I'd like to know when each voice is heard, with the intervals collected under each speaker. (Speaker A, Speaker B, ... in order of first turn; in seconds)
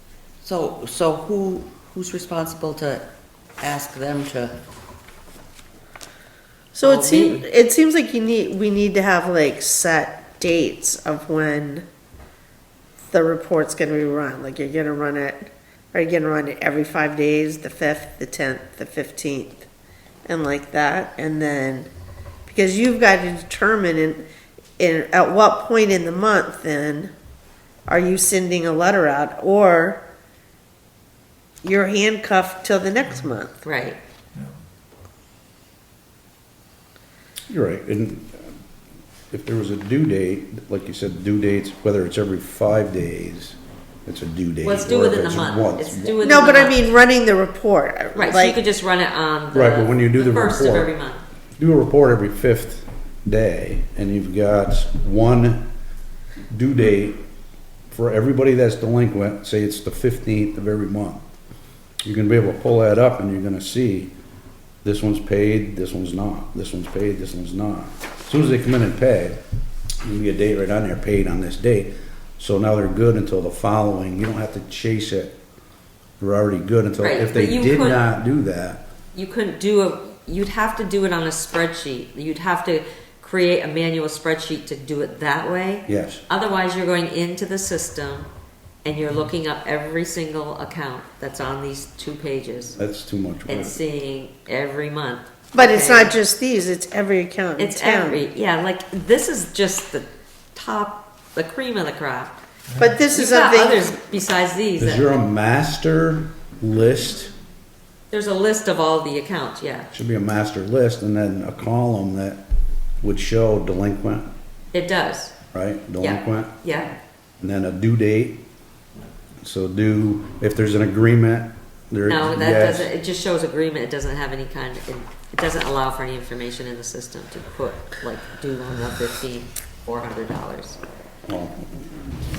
Speaker A: 0.4-3.1, 3.6-4.6
Speaker B: 6.7-11.8, 13.1-19.6, 20.2-21.9, 22.4-24.2, 24.8-27.1, 27.9-30.0, 31.6-33.6, 46.2-48.6, 95.5-98.2, 102.8-103.9
Speaker C: 6.8-7.4, 33.6-34.0, 44.6-46.8, 48.1-51.2, 77.0-78.0, 79.1-88.3, 88.8-92.8, 93.5-96.1, 97.6-102.4, 103.1-105.1, 108.1-109.9, 114.7-115.3, 116.0-116.9, 122.0-130.8
Speaker D: 37.5-38.5, 39.3-46.2, 49.5-50.9, 51.6-55.6, 56.5-57.2, 57.9-61.2, 62.0-64.1, 64.8-69.4, 70.0-75.4, 76.2-78.8, 85.9-86.2, 92.8-93.8, 104.8-107.3, 109.9-112.4, 113.0-114.3, 115.5-116.5, 117.4-118.4, 119.4-122.9, 131.3-131.8